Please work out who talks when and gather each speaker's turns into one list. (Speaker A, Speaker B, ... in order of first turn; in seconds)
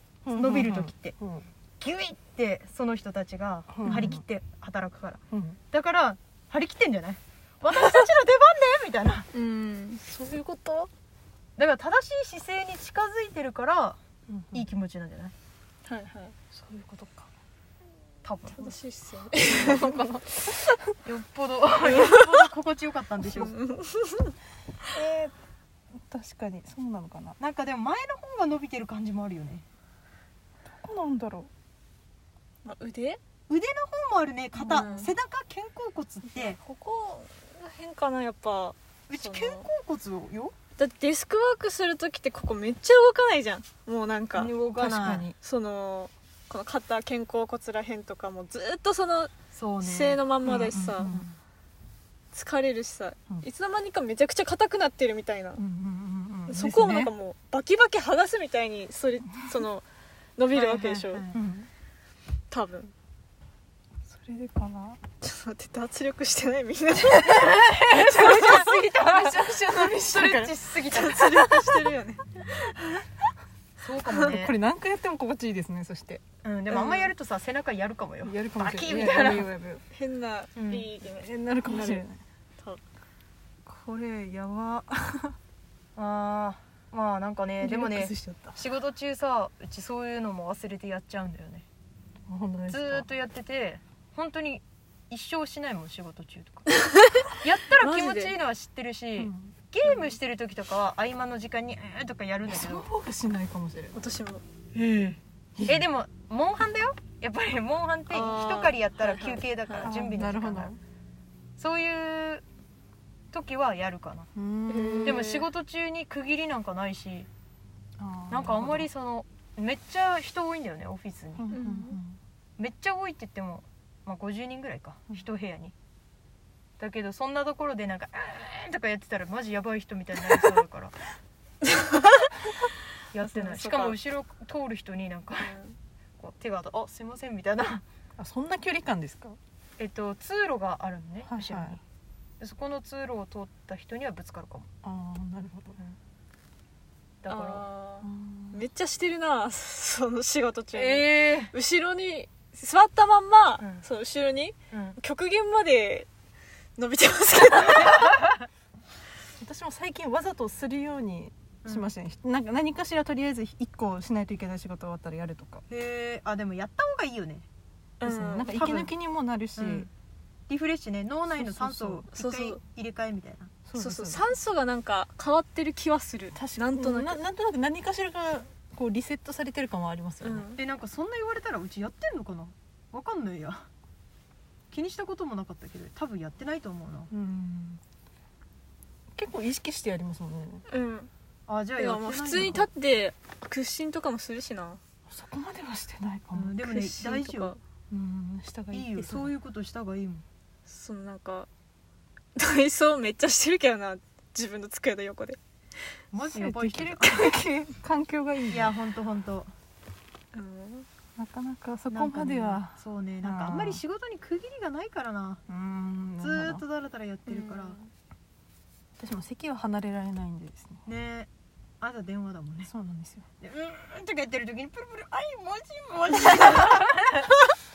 Speaker A: 0.2-1.5, 3.7-4.2, 5.3-5.6, 10.1-10.9, 14.3-14.6, 16.5-17.3, 19.4-20.9, 24.9-25.3, 25.9-27.4, 30.6-31.5, 34.6-34.9, 44.8-45.4, 50.5-51.3, 55.5-57.1, 61.3-61.7, 64.0-65.0, 67.7-70.6, 71.2-71.7, 74.2-76.2, 78.2-79.8, 81.1-82.2, 83.7-85.3, 87.6-88.6, 92.3-93.0, 99.2-99.5, 102.5-104.0, 104.7-105.8, 109.8-110.8, 114.3-115.2, 118.0-118.9, 121.3-122.2, 138.2-139.4, 141.2-141.8, 144.8-145.8, 148.0-148.6, 159.4-165.6, 168.0-169.9, 171.3-172.0, 173.7-174.2, 176.3-180.5, 187.1-187.8, 189.2-190.6, 195.1-196.6, 197.9-199.3, 206.3-208.7, 211.2-213.8, 215.5-216.6, 219.0-220.8, 222.6-223.3
Speaker B: 0.3-1.1, 1.8-9.3, 11.6-14.0, 14.5-15.3, 18.2-18.8, 21.0-23.5, 27.4-29.6, 33.5-36.6, 39.1-40.5, 44.3-45.3, 49.5-50.7, 60.5-61.4, 67.2-71.7, 73.8-74.5, 76.4-79.5, 80.5-80.9, 86.0-91.6, 92.7-96.7, 97.4-102.9, 105.6-110.7, 111.6-112.4, 113.3-114.3, 115.0-117.3, 118.3-121.5, 122.6-125.7, 126.8-130.9, 133.1-135.6, 136.2-137.8, 139.8-141.8, 142.4-144.7, 147.2-147.7, 150.7-151.5, 154.7-155.0, 161.6-161.9, 165.7-167.4, 168.5-168.9, 169.6-169.9, 170.5-173.5, 180.5-183.7, 184.7-187.1, 191.5-192.7, 196.3-197.5, 198.7-200.2, 206.1-207.2, 208.5-209.5, 211.9-215.4, 216.2-217.8, 220.8-221.3, 221.8-222.7, 223.4-227.3
Speaker C: 9.3-10.0, 15.8-16.4, 18.5-20.0, 21.9-22.4, 23.3-24.3, 32.6-33.2, 34.6-35.1, 36.3-39.6, 40.8-44.6, 45.4-51.2, 52.3-55.6, 56.5-59.8, 60.4-61.3, 62.5-62.9, 65.2-68.9, 70.8-73.0, 76.7-77.1, 79.9-82.0, 96.7-98.3, 99.8-100.2, 103.9-104.4, 108.1-109.9, 114.7-115.5, 121.5-122.0, 131.8-132.3, 133.2-134.0, 135.4-135.8, 147.3-156.1, 156.8-158.2, 168.0-168.7, 172.1-172.6, 173.7-177.2, 180.2-180.6, 190.7-191.1, 191.8-194.8, 196.6-197.6, 200.7-201.5, 202.3-205.4, 207.0-207.3, 210.3-210.9, 217.3-217.9